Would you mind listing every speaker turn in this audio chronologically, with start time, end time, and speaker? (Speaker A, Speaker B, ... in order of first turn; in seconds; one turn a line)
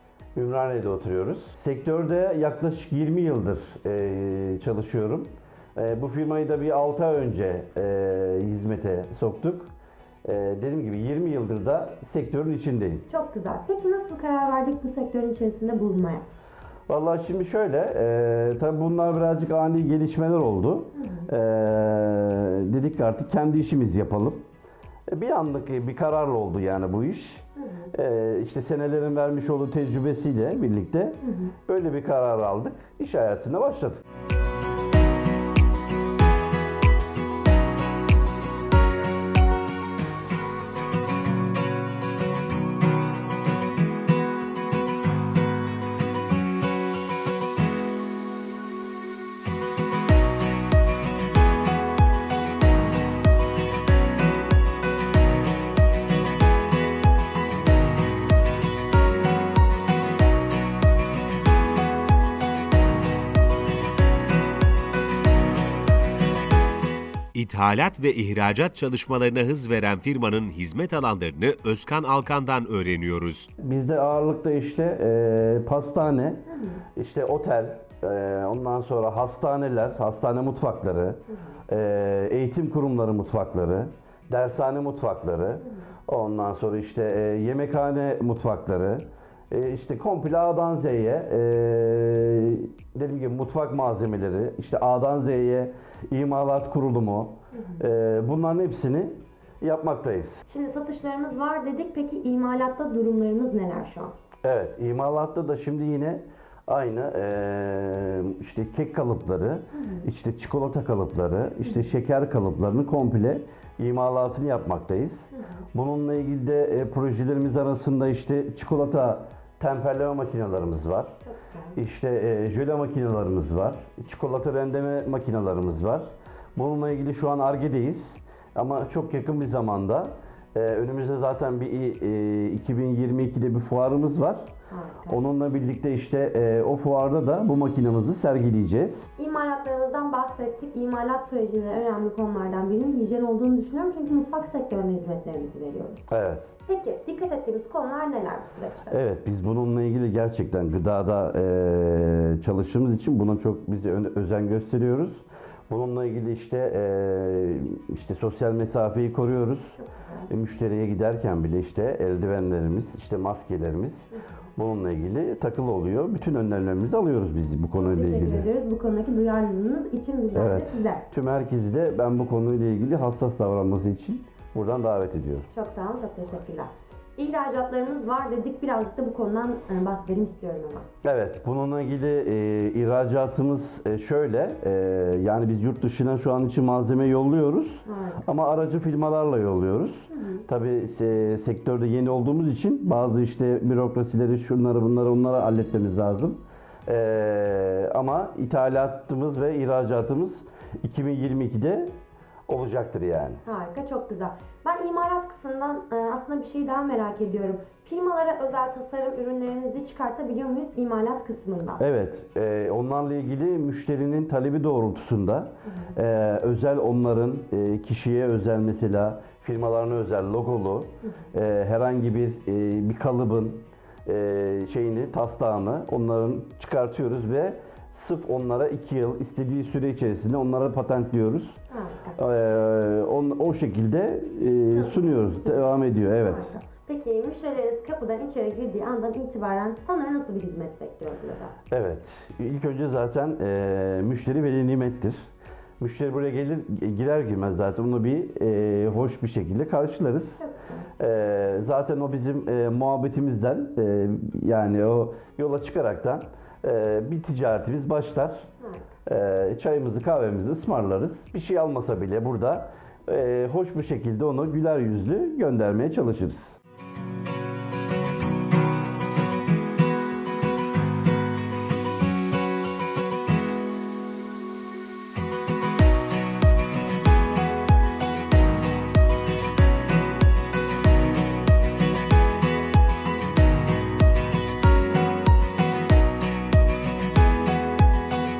Speaker A: 0.3-9.7
Speaker A: 10.2-13.0
Speaker B: 13.1-16.3
Speaker A: 16.9-24.4
Speaker B: 20.9-21.3
Speaker A: 25.1-34.0
Speaker B: 27.6-27.9
Speaker B: 31.2-31.5
Speaker C: 67.3-73.5
Speaker A: 73.6-100.4
Speaker B: 76.5-76.8
Speaker B: 97.5-97.8
Speaker B: 100.5-104.1
Speaker A: 104.4-121.1
Speaker B: 109.7-110.1
Speaker B: 115.3-115.6
Speaker B: 121.2-121.7
Speaker A: 121.8-134.5
Speaker B: 134.7-135.2
Speaker A: 135.1-139.1
Speaker B: 139.2-146.1
Speaker A: 146.1-146.5
Speaker B: 146.7-149.0
Speaker A: 148.9-168.5
Speaker B: 159.8-160.3
Speaker B: 167.8-171.0
Speaker A: 170.3-175.5
Speaker B: 175.5-180.9
Speaker A: 181.0-201.9
Speaker B: 187.8-188.2
Speaker B: 190.1-190.4
Speaker A: 202.5-203.4
Speaker B: 203.4-211.8
Speaker A: 211.8-231.6
Speaker B: 231.7-232.2
Speaker A: 232.2-236.5
Speaker B: 234.7-241.5
Speaker A: 241.7-245.3
Speaker A: 245.8-250.4
Speaker B: 250.4-250.9
Speaker A: 251.0-258.5
Speaker B: 258.6-258.9
Speaker A: 259.1-266.6